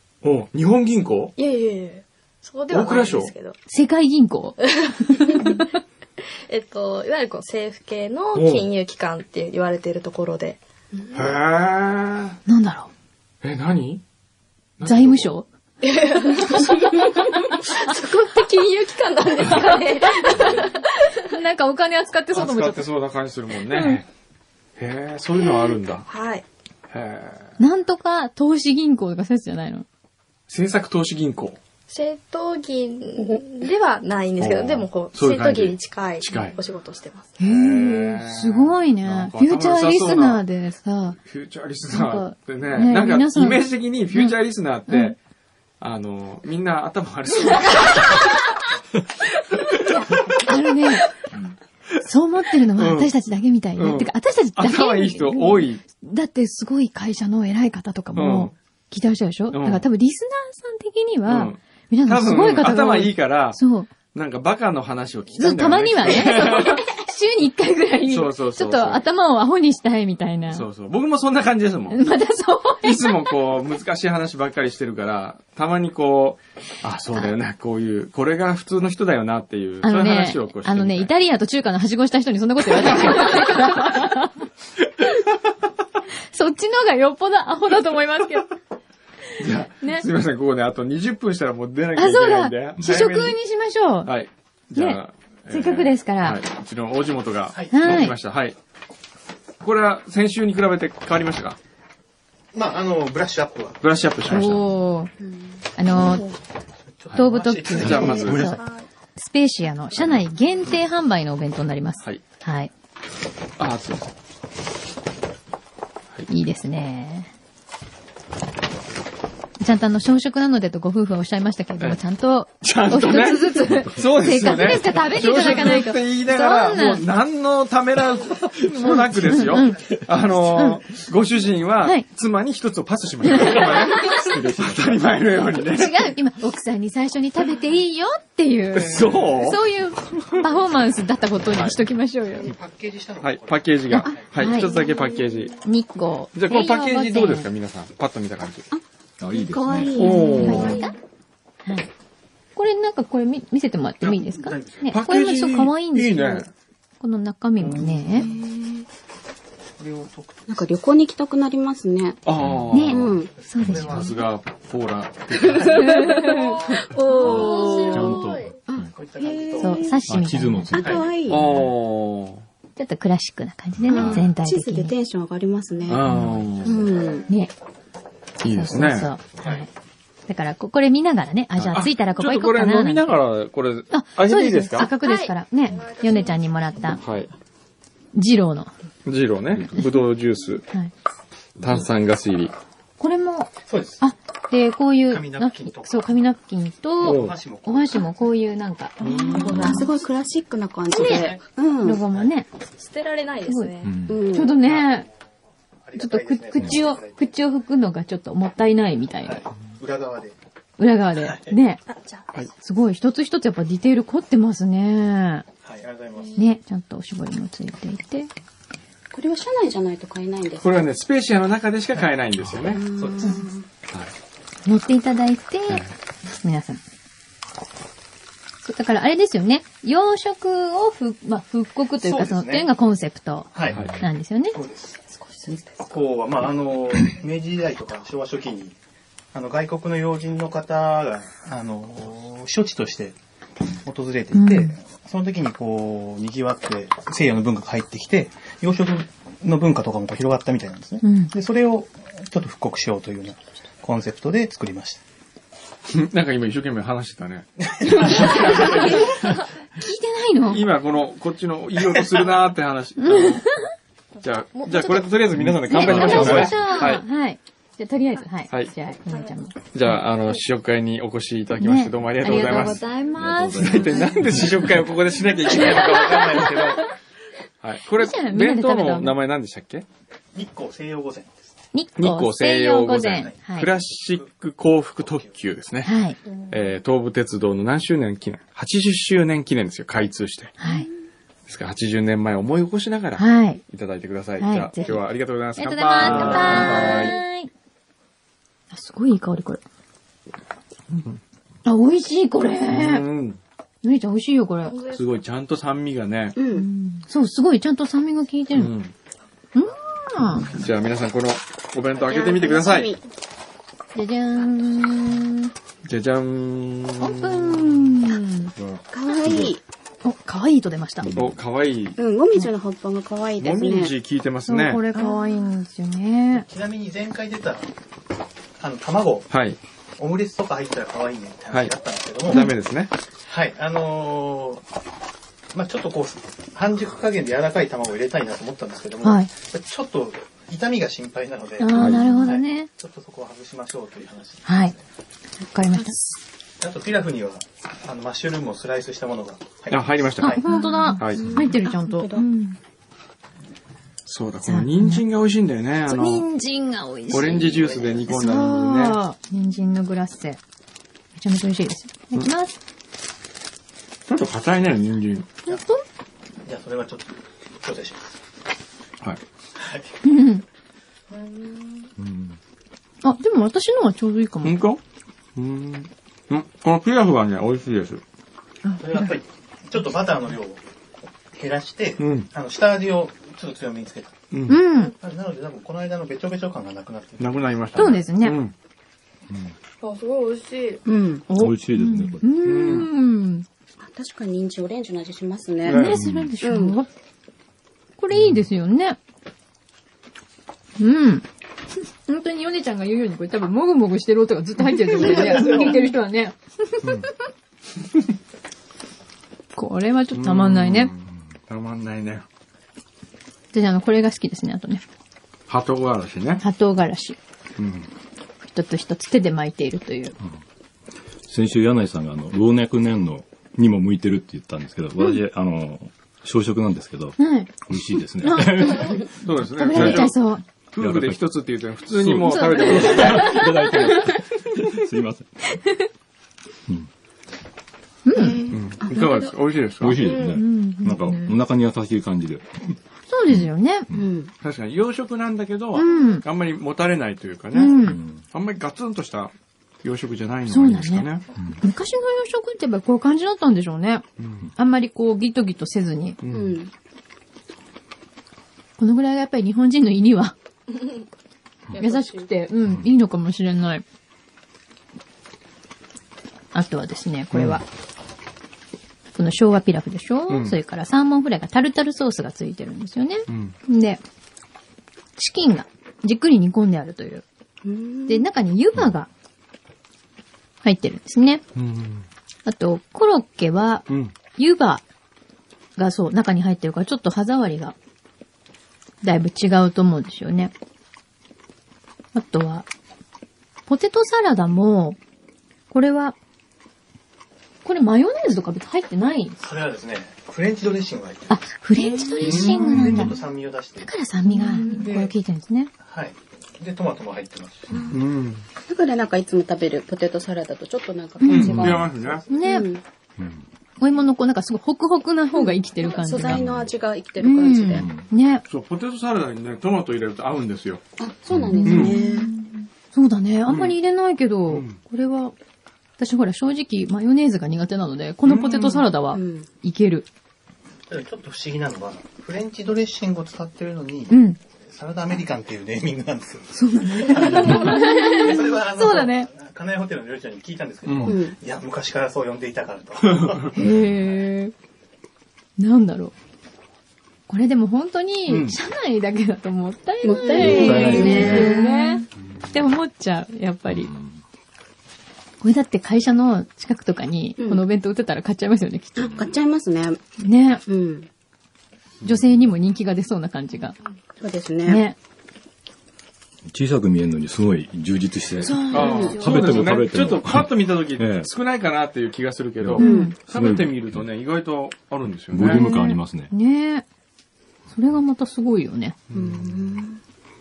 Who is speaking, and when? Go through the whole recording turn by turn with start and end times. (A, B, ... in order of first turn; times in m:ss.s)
0:00.2-0:01.4 A
0:01.4-0:03.6 B
0:02.7-0:03.3 A
0:03.7-0:05.7 C
0:04.6-0:05.6 B
0:06.5-0:11.2 B
0:08.3-0:08.7 A
0:11.1-0:12.4 A
0:12.5-0:12.9 C
0:13.4-0:14.0 A
0:14.8-0:15.3 A
0:14.8-0:15.5 C
0:15.8-0:21.3 B
0:20.4-0:20.7 A
0:21.3-0:22.9 C
0:22.3-0:24.1 A
0:23.7-0:24.0 C
0:24.8-0:26.1 A
0:26.1-0:26.4 B
0:26.9-0:27.6 A
0:27.6-0:29.8 C
0:30.5-0:31.6 A
0:31.9-0:37.4 B
0:34.4-0:36.6 A
0:37.4-0:41.2 C
0:37.4-0:40.4 A
0:41.2-0:45.2 A
0:41.9-0:44.4 C
0:44.9-0:45.2 C
0:45.8-0:48.4 A
0:49.6-0:50.4 A
0:49.9-0:51.1 C
0:52.0-1:03.9 C
0:52.8-0:53.1 A
0:53.8-0:55.8 A
0:58.1-0:58.5 A
0:59.5-0:59.8 A
1:01.3-1:03.6 A
1:04.1-1:06.9 A
1:05.4-1:10.7 C
1:08.1-1:09.0 A
1:10.5-1:12.0 A
1:11.9-1:13.3 C
1:12.8-1:21.1 A
1:19.8-1:24.4 C
1:22.8-1:23.4 A
1:26.3-1:28.5 C
1:29.4-1:33.4 A
1:32.0-1:34.1 C
1:34.0-1:38.6 A
1:34.8-1:36.4 C
1:37.5-1:38.1 D
1:37.7-1:38.2 C
1:39.6-1:41.6 A
1:42.5-1:43.8 D
1:43.8-1:44.7 A
1:44.3-1:45.1 C
1:45.2-1:46.3 E
1:45.8-1:46.2 C
1:47.0-1:48.5 D
1:47.2-1:48.6 C
1:47.8-1:48.6 A
1:49.2-1:52.7 C
1:53.6-1:54.1 A
1:56.3-1:57.3 C
1:59.6-2:07.0 C
2:02.6-2:16.1 A
2:03.7-2:04.1 F
2:08.7-2:09.9 C
2:10.5-2:10.8 C
2:13.3-2:14.1 C
2:13.5-2:15.2 F
2:15.7-2:22.5 C
2:18.7-2:19.6 A
2:21.5-2:21.8 A
2:22.4-2:24.8 D
2:23.2-2:25.6 A
2:23.9-2:24.7 C
2:25.6-2:27.5 C
2:26.3-2:28.7 A
2:29.2-2:30.6 F
2:29.3-2:30.9 E
2:30.0-2:30.8 A
2:30.0-2:30.9 C
2:30.6-2:30.9 B
2:31.6-2:31.9 C
2:32.6-2:36.5 C
2:34.0-2:34.9 D
2:34.9-2:36.5 A
2:37.0-2:38.3 C
2:37.6-2:38.4 D
2:38.1-2:38.8 E
2:39.8-2:40.7 D
2:40.5-2:42.2 E
2:42.2-2:46.2 A
2:42.3-2:42.8 F
2:42.7-2:44.1 C
2:42.9-2:43.3 E
2:43.3-2:44.2 D
2:45.6-2:45.8 D
2:45.8-2:46.6 C
2:45.8-2:50.0 E
2:46.0-2:48.6 B
2:47.2-2:47.8 D
2:47.3-2:47.9 A
2:47.9-2:48.9 F
2:48.9-2:49.9 D
2:49.6-2:51.0 C
2:50.0-2:51.7 F
2:50.7-2:51.5 E
2:50.8-2:51.0 D
2:51.3-2:52.4 A
2:52.8-2:55.0 C
2:53.9-2:54.3 A
2:53.9-2:56.0 E
2:55.9-2:56.9 A
2:56.0-2:56.6 F
2:56.6-2:57.3 E
2:56.7-2:57.3 D
2:57.3-2:57.5 C
2:58.4-2:59.1 A
2:58.4-2:59.7 C
2:59.4-2:59.7 D
3:00.3-3:03.2 C
3:01.6-3:04.9 A
3:03.9-3:07.0 C
3:04.8-3:06.9 B
3:07.0-3:07.3 A
3:08.2-3:08.7 C
3:09.0-3:10.6 A
3:11.6-3:12.6 A
3:11.6-3:11.9 F
3:13.0-3:19.9 C
3:13.7-3:14.0 D
3:15.1-3:16.2 D
3:17.0-3:18.1 D
3:17.0-3:17.4 A
3:19.0-3:19.8 A
3:19.1-3:22.0 E
3:20.9-3:22.5 C
3:20.9-3:21.4 D
3:22.8-3:24.1 B
3:23.5-3:23.7 C
3:23.8-3:24.2 F
3:24.1-3:24.6 E
3:24.2-3:25.1 C
3:24.3-3:25.1 D
3:25.8-3:27.4 D
3:26.0-3:29.4 C
3:26.6-3:26.8 F
3:29.2-3:30.4 D
3:30.8-3:31.8 C
3:31.2-3:31.6 D
3:31.9-3:32.2 B
3:32.6-3:35.5 C
3:35.6-3:36.4 D
3:36.4-3:38.3 C
3:39.1-3:40.7 E
3:40.6-3:42.8 A
3:42.7-3:43.6 E
3:42.9-3:43.5 D
3:44.7-3:45.8 C
3:46.4-3:46.8 C
3:48.6-3:54.6 C
3:52.0-3:52.7 D
3:53.5-3:53.8 D
3:54.5-3:55.0 D
3:55.1-3:55.9 E
3:55.9-3:58.8 D
3:59.3-4:03.2 D
4:03.8-4:15.0 D
4:04.3-4:04.8 C
4:11.0-4:11.3 C
4:15.9-4:19.2 A
4:18.3-4:19.0 C
4:18.4-4:19.2 B
4:19.8-4:20.7 C
4:20.5-4:23.5 A
4:23.0-4:23.5 C
4:24.2-4:25.1 B
4:24.2-4:27.0 A
4:25.3-4:26.7 F
4:25.7-4:29.5 C
4:29.1-4:29.4 B
4:29.7-4:32.8 A
4:31.6-4:34.1 C
4:32.2-4:35.0 F
4:33.5-4:36.9 A
4:37.6-4:39.9 A
4:38.0-4:39.2 C
4:40.3-4:41.5 D
4:41.7-4:43.7 C
4:42.0-4:45.9 A
4:43.1-4:44.3 D
4:45.0-4:45.5 D
4:45.8-4:46.2 C
4:46.5-4:50.6 A
4:50.6-4:50.9 C
4:51.5-4:57.2 A
4:53.2-4:53.6 C
4:54.4-4:57.5 C
4:58.7-4:59.6 C
5:00.9-5:01.2 A
5:01.6-5:03.0 C
5:02.7-5:03.4 A
5:03.8-5:04.8 C
5:04.6-5:05.2 B
5:04.9-5:06.4 A
5:06.4-5:06.7 E
5:06.5-5:08.7 C
5:08.5-5:08.9 A
5:09.6-5:10.5 C
5:10.5-5:12.9 A
5:12.0-5:13.0 E
5:14.0-5:15.5 C
5:15.8-5:17.8 A
5:17.0-5:18.5 C
5:18.6-5:18.8 A
5:18.9-5:19.6 E
5:19.3-5:19.5 F
5:20.0-5:21.1 C
5:21.0-5:21.4 F
5:21.2-5:22.0 A
5:22.0-5:23.9 E
5:23.4-5:24.8 A
5:24.5-5:26.5 C
5:26.3-5:27.7 D
5:28.6-5:29.3 D
5:29.3-5:29.6 A
5:30.0-5:32.5 D
5:32.3-5:32.9 A
5:33.3-5:34.6 D
5:35.5-5:44.8 D
5:39.0-5:39.3 C
5:41.6-5:42.7 C
5:41.7-5:42.0 A
5:44.5-5:44.7 C
5:45.4-5:46.0 C
5:46.6-5:50.7 D
5:49.7-5:50.4 A
5:50.2-5:52.6 C
5:50.5-5:52.3 E
5:51.0-5:51.3 A
5:54.1-5:56.3 A
5:54.5-5:55.0 C
5:55.9-6:00.4 C
5:57.1-5:59.0 A
5:57.5-5:58.1 D
6:01.2-6:02.6 C
6:04.1-6:05.4 A
6:05.5-6:05.8 C
6:06.4-6:08.2 D
6:09.6-6:10.0 D
6:10.0-6:10.4 C
6:12.0-6:12.4 F
6:13.0-6:14.6 C
6:14.4-6:14.8 A
6:15.4-6:18.0 A
6:18.6-6:19.1 C
6:18.8-6:20.6 D
6:21.3-6:24.3 D
6:22.0-6:22.3 A
6:24.3-6:24.6 A
6:24.5-6:24.9 C
6:24.9-6:27.5 D
6:27.2-6:28.5 A
6:27.8-6:28.4 C
6:29.8-6:30.8 B
6:30.9-6:31.3 E
6:31.3-6:33.5 C
6:31.3-6:32.2 F
6:32.4-6:32.9 A
6:33.8-6:36.8 E
6:35.6-6:36.0 A
6:35.7-6:36.9 C
6:35.9-6:36.3 F
6:38.0-6:39.0 C
6:40.8-6:41.2 C
6:42.1-6:47.0 C
6:45.0-6:45.7 E
6:45.0-6:45.6 B
6:49.6-6:50.9 C
6:50.1-6:52.3 A
6:53.5-6:54.8 C
6:55.5-6:56.4 A
6:56.4-6:57.2 C
6:57.6-6:57.9 A
6:58.4-7:00.2 C
7:01.3-7:10.1 F
7:07.2-7:07.6 C
7:08.2-7:10.4 C
7:09.2-7:10.2 A
7:10.7-7:13.4 A
7:10.8-7:15.3 F
7:12.2-7:13.8 C
7:18.0-7:18.4 C
7:18.1-7:19.3 E
7:18.5-7:20.0 A
7:19.8-7:22.8 F
7:20.1-7:20.3 B
7:20.1-7:21.4 C
7:23.1-7:23.9 C
7:23.3-7:24.1 F
7:23.9-7:24.3 E
7:24.4-7:27.8 A
7:25.7-7:26.2 C
7:27.5-7:28.0 C
7:27.8-7:28.2 F
7:28.3-7:31.2 A
7:30.5-7:34.0 C
7:34.2-7:34.5 A
7:34.6-7:36.2 C
7:36.2-7:36.6 A
7:36.3-7:36.7 E
7:38.8-7:40.4 C
7:41.8-7:42.2 B
7:41.8-7:43.8 C
7:46.5-7:47.6 C
7:47.3-7:47.6 A
7:49.2-7:54.0 C
7:50.3-7:50.6 A
7:53.3-7:53.6 A
7:55.2-7:57.2 C
7:57.6-7:58.3 E
7:58.1-7:59.1 C
8:00.6-8:01.4 C
8:01.6-8:02.1 A
8:02.5-8:04.8 C
8:03.9-8:04.1 A
8:05.8-8:07.8 C
8:09.0-8:10.5 C
8:12.1-8:12.7 C
8:13.7-8:15.0 C
8:15.7-8:16.2 C
8:17.6-8:19.4 C
8:19.4-8:21.5 D
8:21.3-8:23.2 C
8:21.8-8:22.9 E
8:22.2-8:23.0 A
8:22.2-8:23.9 D
8:23.8-8:25.7 C
8:24.4-8:24.9 E
8:24.8-8:25.1 D
8:25.8-8:27.8 D
8:27.7-8:28.0 E
8:27.9-8:28.4 A
8:28.7-8:32.8 E
8:31.2-8:32.7 C
8:31.3-8:32.2 A
8:33.2-8:33.4 F
8:33.8-8:36.4 C
8:35.3-8:37.9 E
8:36.2-8:36.7 F
8:37.2-8:38.4 C
8:37.7-8:38.1 F
8:38.5-8:40.8 A
8:41.0-8:42.3 E
8:41.3-8:41.7 F
8:41.5-8:45.3 C
8:41.7-8:42.0 A
8:43.5-8:43.8 A
8:44.5-8:44.8 A
8:46.0-8:50.1 C
8:48.2-8:48.9 A
8:49.1-8:49.5 E
8:50.9-9:03.5 D
8:54.1-8:54.4 C
8:56.5-8:59.3 C
8:57.3-8:57.7 A
9:00.8-9:01.2 A
9:01.0-9:01.4 E
9:03.0-9:03.5 A
9:03.6-9:04.5 C
9:05.6-9:06.1 C
9:07.3-9:13.9 C
9:08.3-9:08.6 A
9:10.0-9:12.0 E
9:10.4-9:11.6 F
9:13.7-9:14.2 F
9:15.4-9:19.1 C
9:17.4-9:17.6 E
9:19.0-9:20.0 E
9:20.2-9:20.6 C
9:20.7-9:21.1 E
9:22.0-9:23.8 C
9:24.2-9:24.8 E
9:24.6-9:25.0 C
9:26.5-9:31.3 F
9:28.4-9:29.7 C
9:28.7-9:35.7 A
9:28.7-9:29.2 E
9:32.6-9:34.1 F
9:32.8-9:33.2 C
9:32.8-9:33.2 E
9:35.3-9:36.3 F
9:35.4-9:36.8 C
9:37.7-9:39.0 C
9:39.1-9:39.6 A
9:39.1-9:40.0 E